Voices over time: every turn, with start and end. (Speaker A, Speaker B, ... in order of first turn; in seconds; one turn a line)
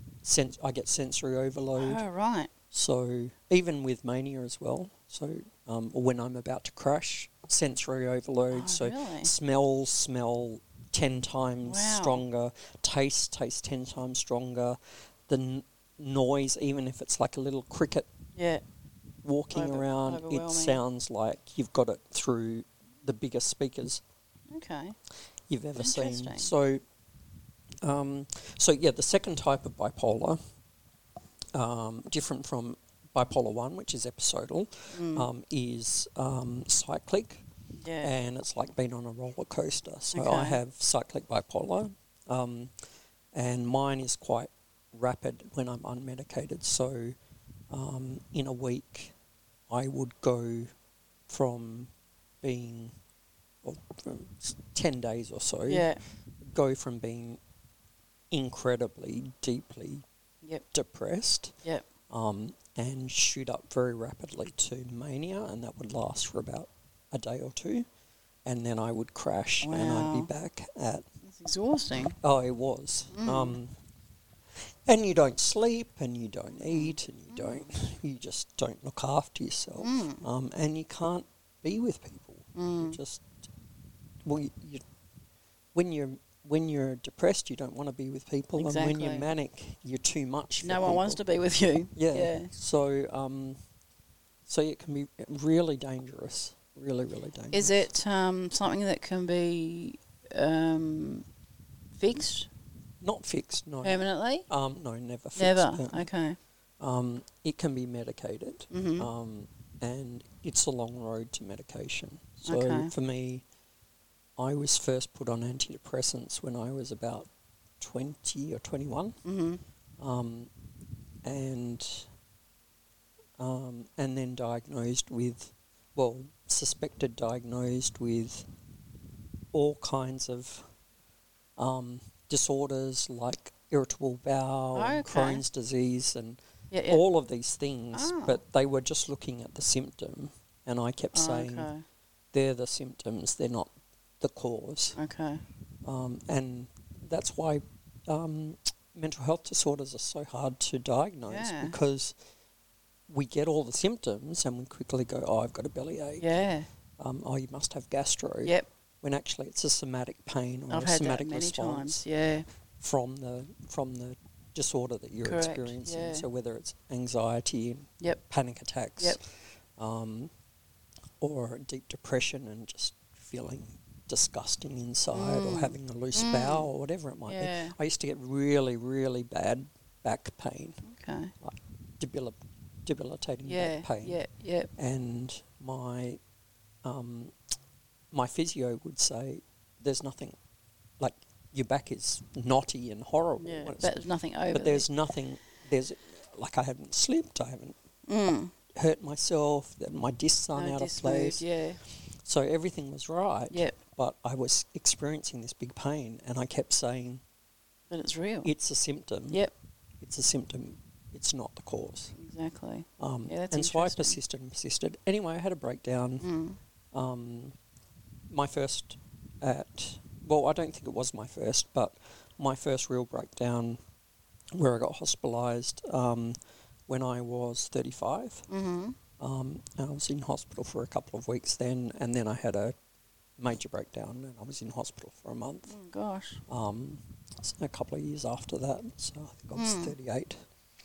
Speaker A: 0.2-2.0
Speaker B: 1.8-2.5
Speaker A: 2.7-18.1
Speaker B: 8.5-9.3
Speaker B: 11.6-12.2
Speaker B: 18.3-18.6
Speaker A: 19.2-24.0
Speaker B: 19.5-20.8
Speaker B: 24.5-24.9
Speaker A: 25.5-26.8
Speaker B: 25.8-26.5
Speaker A: 27.8-30.4
Speaker A: 31.5-37.4
Speaker B: 34.9-35.3
Speaker B: 37.8-38.1
Speaker A: 38.0-42.7
Speaker B: 40.1-40.6
Speaker A: 43.3-47.1
Speaker A: 47.7-49.1
Speaker A: 49.7-50.7
Speaker A: 51.3-51.9
Speaker A: 52.4-52.9
Speaker A: 53.6-55.9
Speaker B: 55.7-56.0
Speaker A: 56.4-57.4
Speaker A: 58.3-60.0
Speaker A: 60.7-61.5
Speaker A: 62.1-67.9
Speaker A: 68.4-71.1
Speaker B: 69.6-70.3
Speaker B: 71.2-72.2
Speaker A: 72.2-73.7
Speaker B: 73.1-73.6
Speaker A: 74.8-83.4
Speaker B: 76.6-77.7
Speaker B: 79.8-80.2
Speaker B: 82.5-83.0
Speaker A: 84.2-84.8
Speaker A: 85.7-91.2
Speaker B: 88.5-89.3
Speaker B: 90.6-92.5
Speaker A: 92.0-93.6
Speaker A: 94.5-97.8
Speaker B: 97.5-101.2
Speaker B: 102.0-102.5
Speaker A: 103.0-106.0
Speaker B: 103.8-104.5
Speaker B: 105.4-106.4
Speaker A: 106.8-113.4
Speaker B: 108.7-109.1
Speaker B: 112.5-112.9
Speaker A: 114.4-117.3
Speaker A: 117.8-119.2
Speaker B: 119.2-119.6
Speaker A: 120.0-120.5
Speaker A: 121.2-122.1
Speaker A: 123.4-128.4
Speaker A: 129.5-130.7
Speaker A: 131.6-141.7
Speaker B: 134.7-135.4
Speaker B: 136.7-137.0
Speaker B: 137.9-138.4
Speaker B: 141.1-141.8
Speaker A: 142.3-145.0
Speaker B: 144.9-145.4
Speaker A: 145.8-152.1
Speaker B: 151.3-151.8
Speaker A: 153.1-156.3
Speaker B: 156.2-156.7
Speaker A: 157.0-162.0
Speaker B: 160.7-162.4
Speaker A: 162.8-169.2
Speaker B: 165.2-166.2
Speaker A: 169.8-170.3
Speaker A: 171.2-180.8
Speaker B: 175.1-176.7
Speaker B: 177.3-177.7
Speaker B: 180.8-181.3
Speaker A: 181.4-184.2
Speaker B: 183.4-184.7
Speaker A: 184.8-186.2
Speaker A: 186.8-187.3
Speaker A: 188.1-190.3
Speaker A: 191.0-193.9
Speaker B: 193.4-194.9
Speaker A: 194.5-197.8
Speaker B: 198.1-198.5
Speaker A: 198.7-201.4
Speaker B: 200.5-201.8
Speaker A: 202.2-207.2
Speaker B: 203.5-203.8
Speaker B: 207.9-208.5
Speaker A: 208.4-209.4
Speaker A: 210.0-212.1
Speaker B: 212.2-214.2
Speaker A: 213.0-216.3
Speaker B: 216.2-216.6
Speaker A: 216.9-217.5
Speaker A: 218.3-223.8
Speaker A: 224.5-226.4
Speaker A: 226.9-228.5
Speaker B: 228.5-229.0
Speaker A: 229.2-232.7
Speaker A: 233.4-235.7
Speaker B: 235.7-236.4
Speaker A: 236.5-240.4
Speaker B: 239.5-239.9